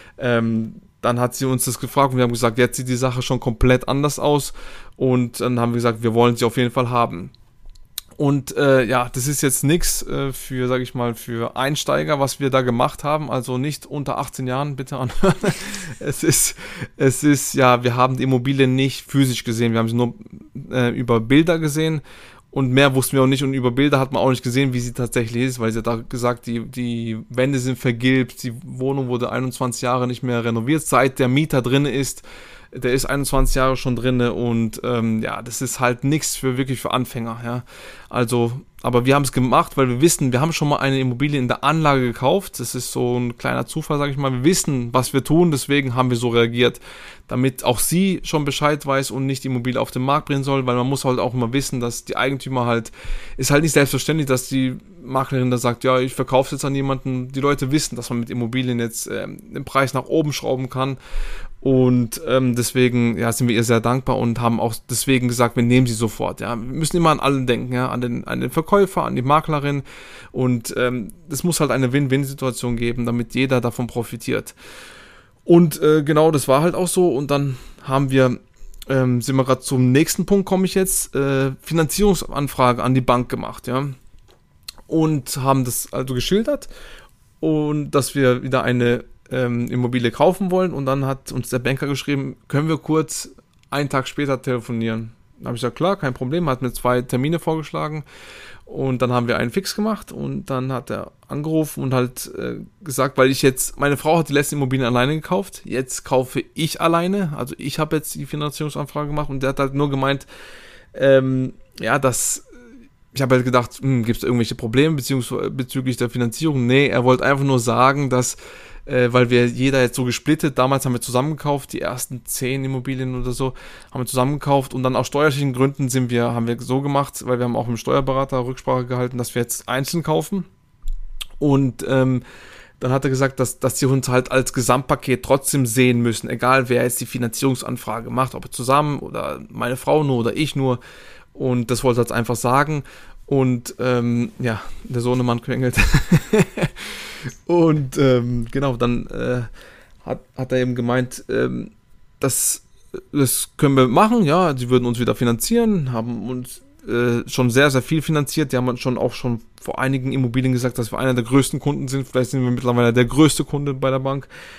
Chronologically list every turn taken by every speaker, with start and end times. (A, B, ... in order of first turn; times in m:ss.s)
0:00.2-0:07.3 A
0:08.2-1:01.0 A
1:01.6-1:14.6 A
1:15.5-1:24.0 A
1:24.9-1:26.7 A
1:27.4-1:38.0 A
1:38.7-1:50.3 A
1:50.9-1:52.4 A
1:53.1-2:10.5 A
2:11.4-2:12.2 A
2:12.8-2:20.8 A
2:21.4-2:29.5 A
2:30.0-2:44.3 A